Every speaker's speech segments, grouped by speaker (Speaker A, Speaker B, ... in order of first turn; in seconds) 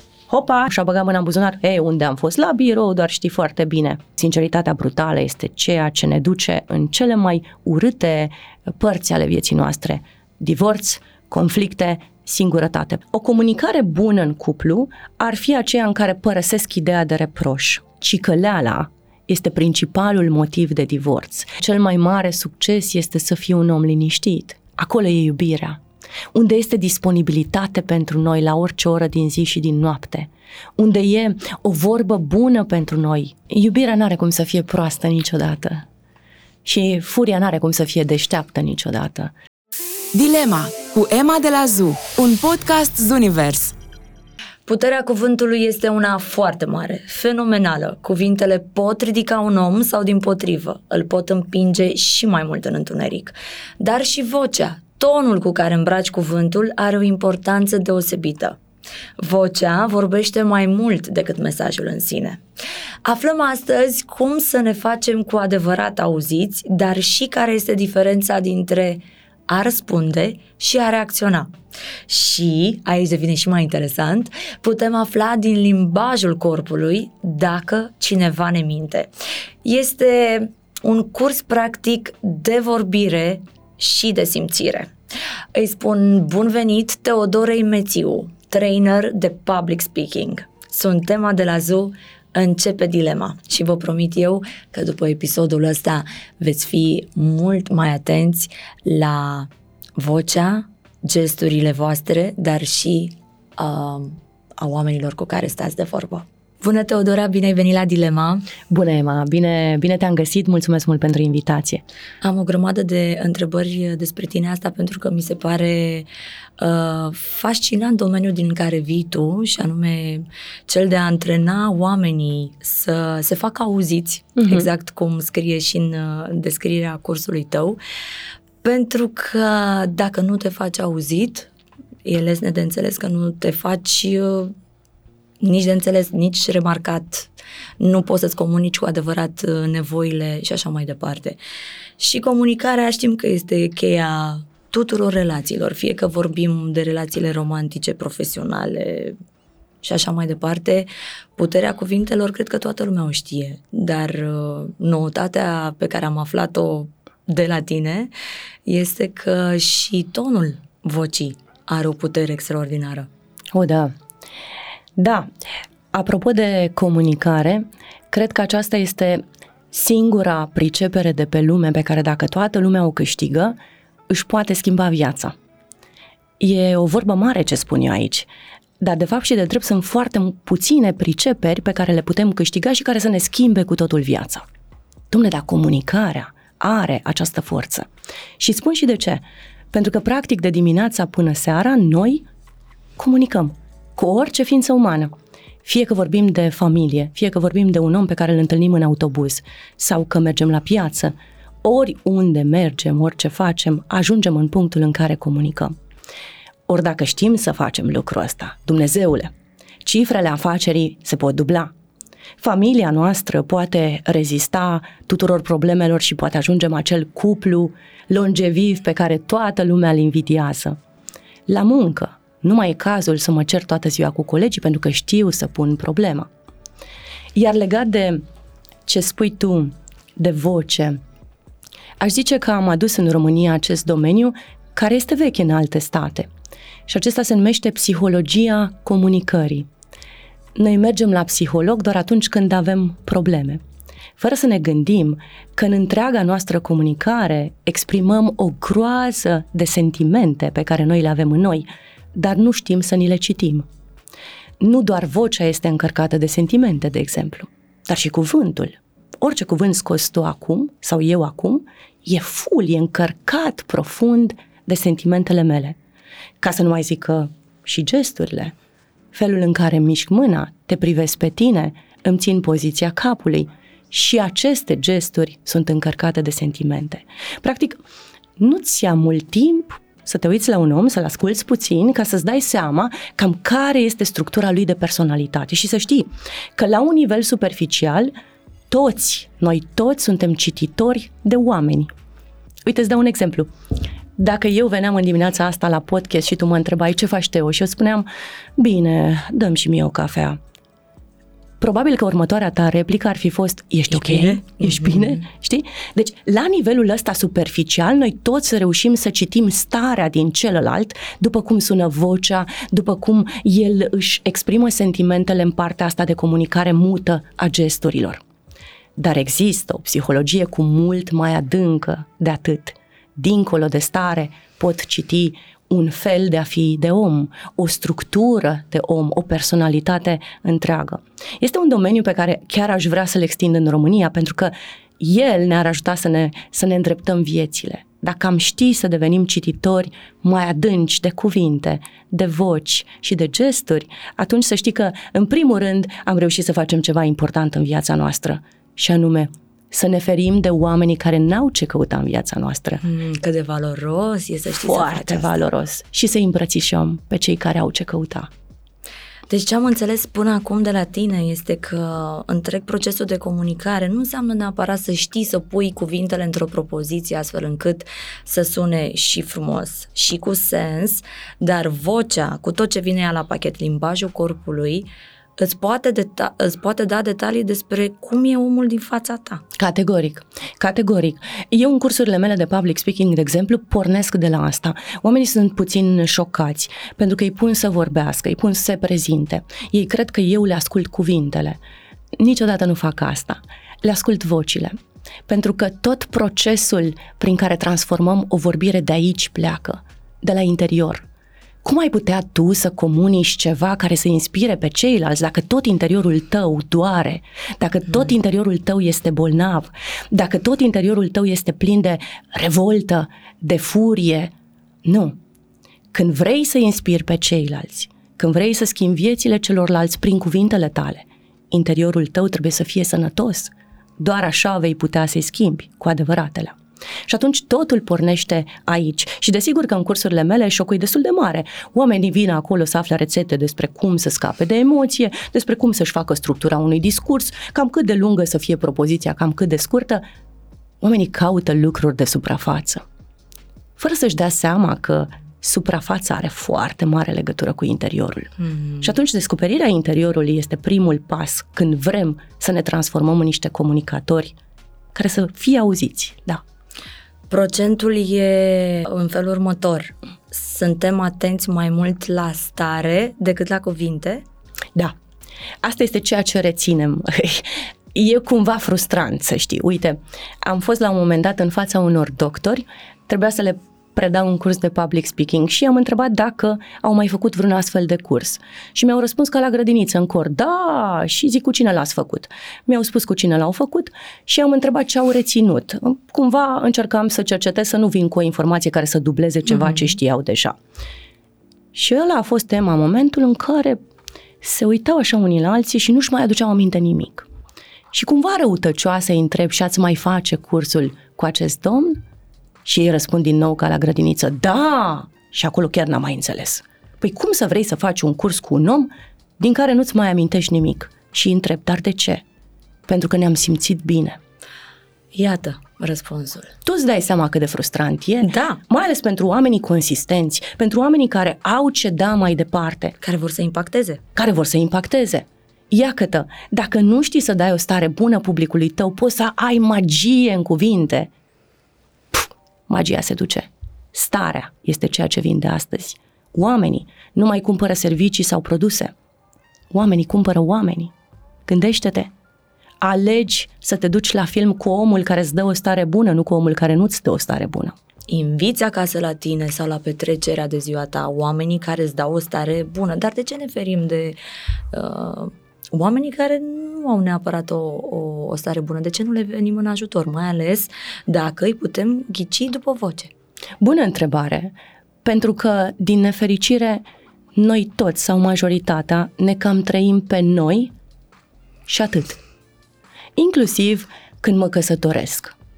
Speaker A: 0.3-25.8, 26.3-35.9, 36.6-39.3, 108.7-111.8, 124.4-124.7, 163.5-163.9, 165.0-165.3, 165.9-173.6, 174.1-175.3, 176.4-178.3, 178.8-184.4, 185.1-187.9, 188.4-192.2, 193.0-195.1, 195.6-205.7, 206.7-209.3, 209.8-211.7, 212.4-220.8, 221.5-226.3, 227.3-228.2, 228.8-231.0, 232.0-236.3, 236.9-239.7, 240.6-243.6, 244.2-253.7, 254.6-265.8, 266.4-268.5, 269.1-277.8, 278.4-288.1, 288.7-291.9, 292.6-293.5, 294.2-300.4, 301.6-318.2, 319.0-352.8, 354.6-358.3, 379.6-391.6, 392.2-394.7, 395.3-401.1, 401.6-414.3, 414.8-415.2, 415.9-426.6, 427.1-440.0, 440.8-442.8, 443.8-454.3, 454.9-456.4, 465.6-490.6, 491.7-493.8, 494.4-497.3, 497.9-502.0, 502.6-512.2, 512.9-514.2, 516.6-522.9, 524.1-531.1, 532.1-538.9, 539.7-540.9, 541.5-542.1, 542.8-547.8, 563.6-566.8, 567.4-570.7, 571.7-572.2, 573.1-575.3
Speaker B: 40.1-43.7
Speaker C: 44.6-58.6, 59.2-62.4, 63.0-71.5, 72.1-79.1, 79.6-84.9, 85.5-108.5, 112.2-116.1, 116.6-127.8, 128.6-131.5, 132.0-134.5, 135.4-137.3, 137.8-141.4, 142.0-149.2, 149.8-158.1, 158.7-163.1, 303.9-305.2, 352.8-355.3, 359.3-379.4, 448.4-448.9, 457.3-464.2, 489.5-489.9, 515.1-516.5, 518.2-518.6, 523.0-524.0, 548.1-554.2, 554.7-563.1